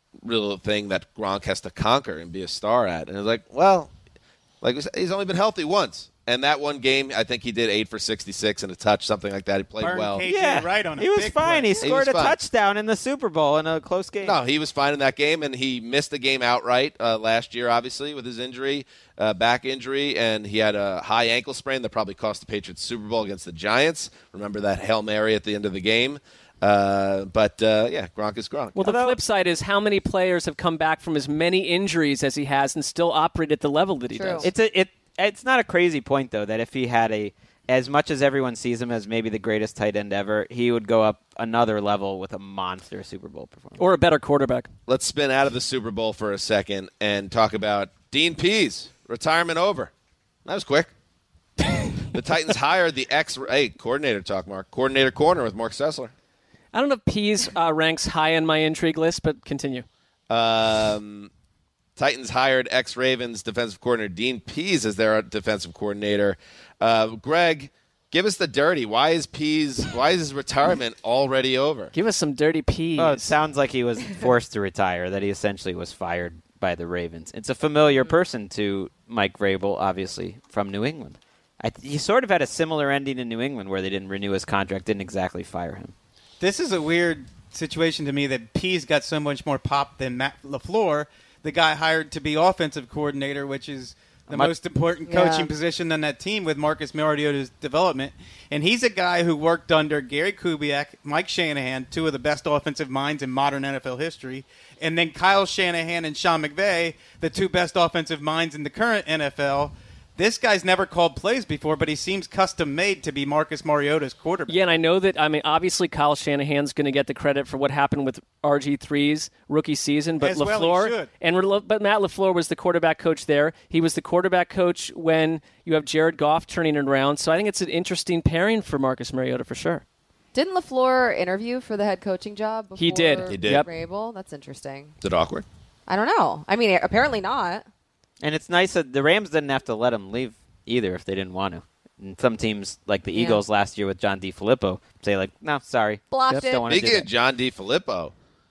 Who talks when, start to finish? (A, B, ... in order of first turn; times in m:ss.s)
0:00.2-0:03.9 A
0:04.6-0:10.2 A
0:09.8-0:11.8 B
0:10.2-0:14.4 C
0:11.8-0:12.4 A
0:14.2-0:28.9 A
0:28.7-0:34.5 D
0:28.8-0:29.2 C
0:34.1-0:34.5 E
0:34.4-0:43.8 C
0:43.8-0:44.7 D
0:44.9-0:49.9 A
0:50.4-0:50.9 A
0:52.1-0:56.1 A
0:56.7-0:59.8 D
1:00.3-1:01.3 A
1:02.0-1:11.9 A
1:11.9-1:13.3 D
1:13.0-1:25.9 C
1:26.4-1:54.5 B
1:34.3-1:34.5 C
1:35.0-1:35.5 E
1:54.5-2:09.8 D
2:00.2-2:01.1 B
2:10.3-2:14.9 E
2:12.8-2:13.7 D
2:13.2-2:13.6 A
2:15.0-2:15.4 A
2:15.9-2:17.6 E
2:18.2-2:27.1 C
2:23.1-2:23.4 E
2:26.1-2:26.7 E
2:26.7-2:28.1 A